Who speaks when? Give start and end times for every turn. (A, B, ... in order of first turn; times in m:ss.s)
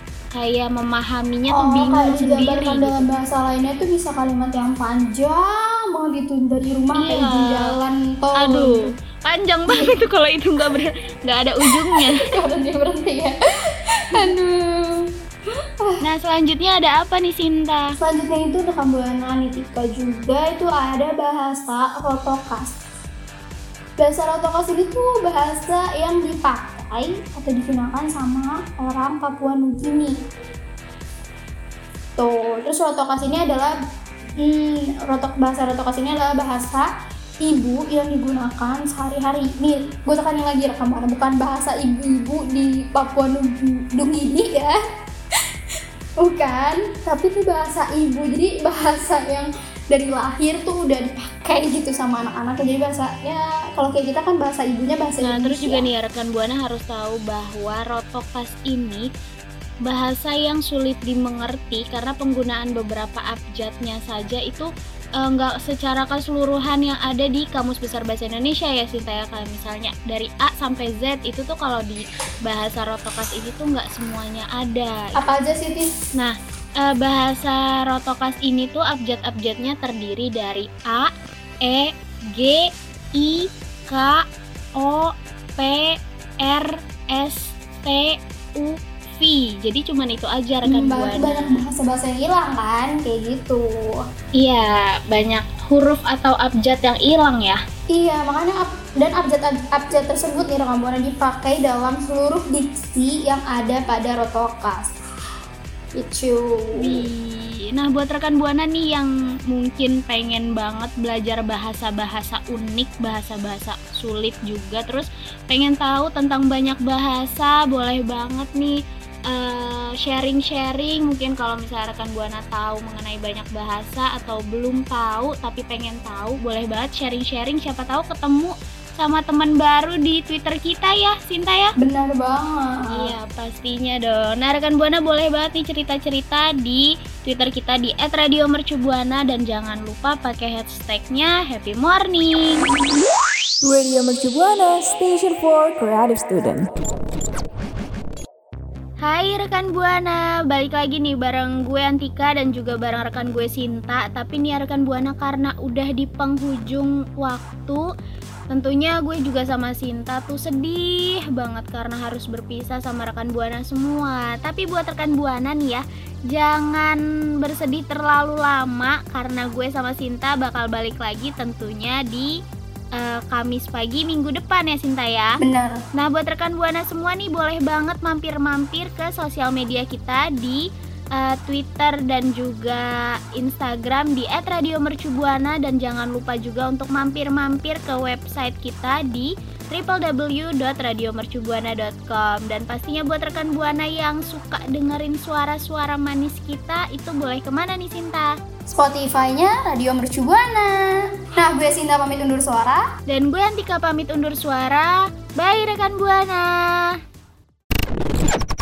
0:00.3-0:03.0 A
0:01.5-0:08.9 B
0:07.0-0:07.7 A
0:08.4-0:12.2 A
0:09.7-0:09.9 B
0:11.6-0:15.0 B
0:16.0-0:17.9 A
0:18.0-0:22.8 B
0:24.0-0:30.1 B
0:32.2-0:33.7 B
0:34.4-0:36.9 B
0:37.4-0:44.7 B
0:46.2-0:55.8 B
0:55.2-0:59.0 A
0:59.9-1:04.7 A
1:05.2-1:15.1 A
1:15.1-1:16.0 B
1:16.2-1:21.1 A
1:21.6-1:24.2 A
1:24.8-1:31.6 A
1:30.7-1:33.9 B
1:34.4-1:37.6 A
1:37.9-1:44.9 B
1:46.0-1:47.0 B
1:46.8-1:58.7 A
1:59.3-2:11.7 A
2:11.8-2:13.1 B
2:12.9-2:22.6 A
2:23.6-2:26.6 C
2:29.0-2:37.8 A
2:38.5-2:52.3 A
2:53.0-2:55.4 A
2:55.4-2:55.8 B
2:55.9-3:00.6 A
3:01.2-3:18.3 A
3:18.7-3:22.8 B
3:23.1-3:27.0 A